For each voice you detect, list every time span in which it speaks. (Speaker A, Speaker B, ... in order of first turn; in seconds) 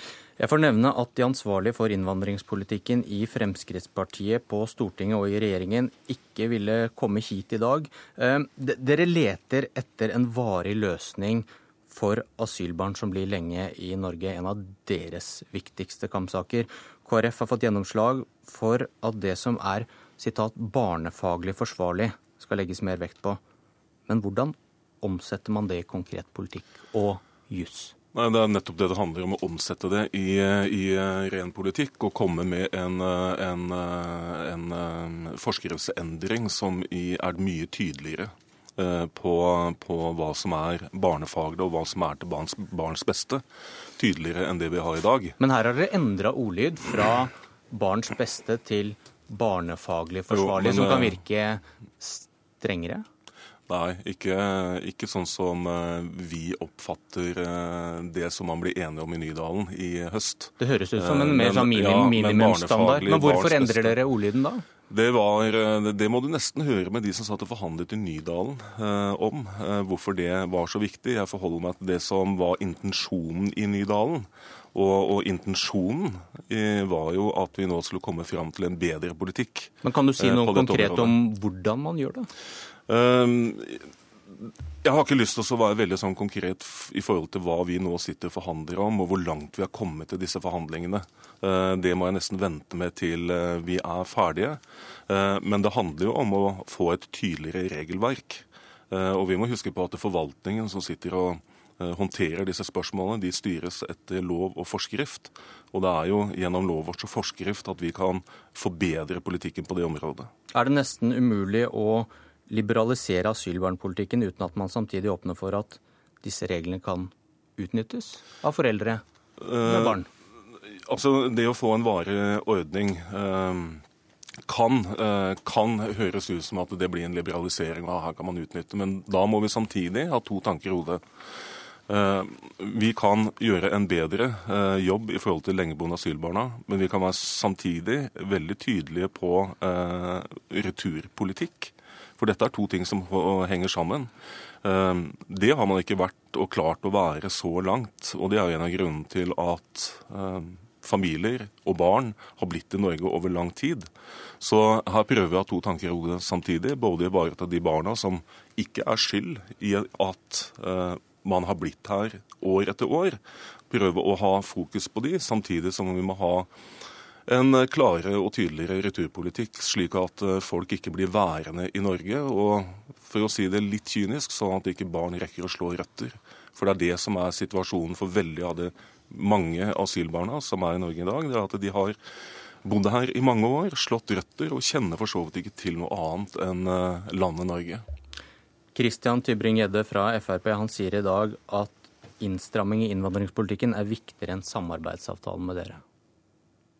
Speaker A: 0.4-23.4, 24.1-27.9, 45.4-53.1, 60.6-64.6, 79.8-82.3, 110.5-119.0, 119.6-120.1, 188.8-195.8
Speaker B: 28.1-43.4, 44.0-45.4, 50.3-51.2, 53.7-64.0, 64.9-81.2, 82.9-110.3, 119.4-120.0, 120.9-123.8, 124.5-131.0, 131.9-144.1, 144.6-166.5, 167.3-182.0, 182.6-187.8